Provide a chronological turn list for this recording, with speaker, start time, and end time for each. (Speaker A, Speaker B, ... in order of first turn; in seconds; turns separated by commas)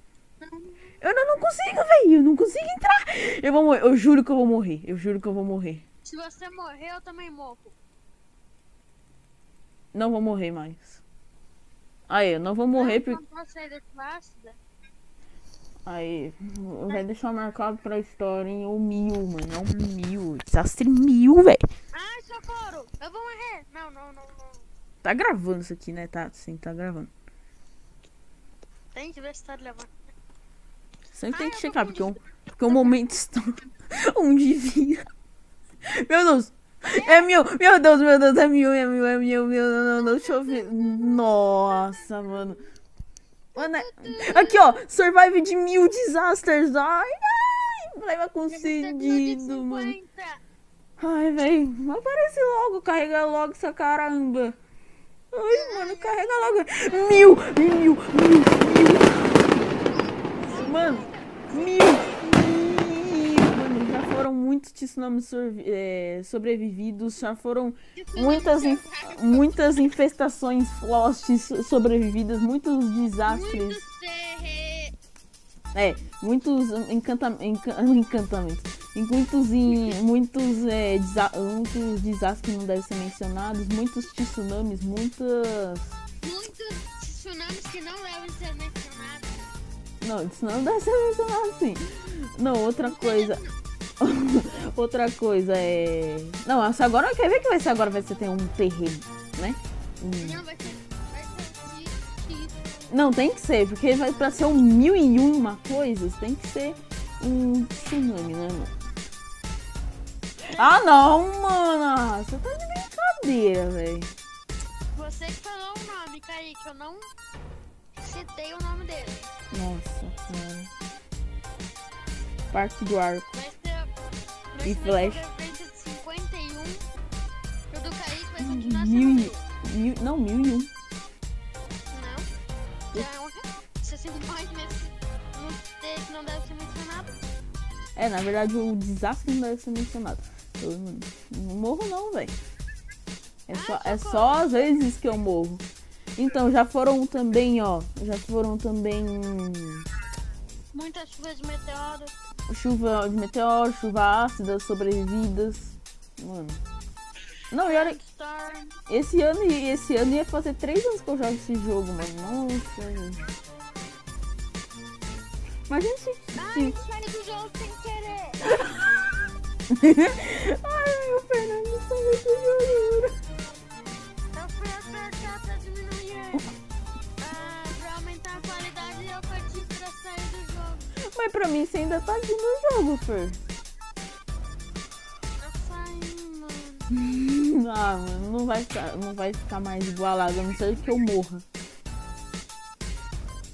Speaker A: 0.4-0.9, Speaker B: 1.0-5.8, Speaker A: 6.0-7.8, Speaker B: 9.9-11.0, Speaker B: 12.1-13.2, Speaker A: 12.7-14.6, Speaker B: 15.8-21.6, Speaker A: 21.9-24.6, Speaker B: 25.0-27.1, Speaker A: 28.9-29.9, Speaker B: 31.1-35.0, Speaker A: 31.3-32.1, Speaker B: 35.9-42.6, Speaker A: 36.9-37.3, Speaker A: 40.0-41.9, Speaker A: 43.5-44.8, Speaker B: 43.5-50.0, Speaker A: 48.5-50.4, Speaker B: 51.0-54.6, Speaker B: 55.3-59.5, Speaker A: 55.5-57.3, Speaker A: 59.9-62.2, Speaker B: 60.4-73.8, Speaker A: 67.9-69.9, Speaker A: 73.2-74.9, Speaker B: 75.7-86.0, Speaker A: 86.2-89.5, Speaker B: 90.0-93.4, Speaker A: 92.8-93.5, Speaker B: 94.0-100.4, Speaker A: 100.2-102.6, Speaker B: 102.9-108.7, Speaker B: 110.5-114.1, Speaker A: 110.5-110.8, Speaker A: 114.9-117.1, Speaker A: 118.0-119.3, Speaker B: 119.5-120.7, Speaker B: 122.5-123.3, Speaker A: 123.3-123.9, Speaker A: 124.5-126.9, Speaker B: 124.6-125.2, Speaker A: 127.7-129.4, Speaker B: 128.4-130.7, Speaker A: 131.9-132.3, Speaker A: 132.9-137.2, Speaker B: 137.9-142.3, Speaker B: 143.5-145.6, Speaker A: 143.5-144.5, Speaker B: 146.2-149.8, Speaker A: 150.7-152.1, Speaker B: 152.5-156.6, Speaker B: 157.5-158.0, Speaker A: 157.6-158.8, Speaker B: 158.9-163.2, Speaker B: 165.7-166.8, Speaker A: 166.3-168.6, Speaker B: 169.7-173.1, Speaker A: 174.3-176.5, Speaker A: 177.2-180.8, Speaker B: 181.1-183.4, Speaker A: 185.4-186.9, Speaker B: 186.9-191.4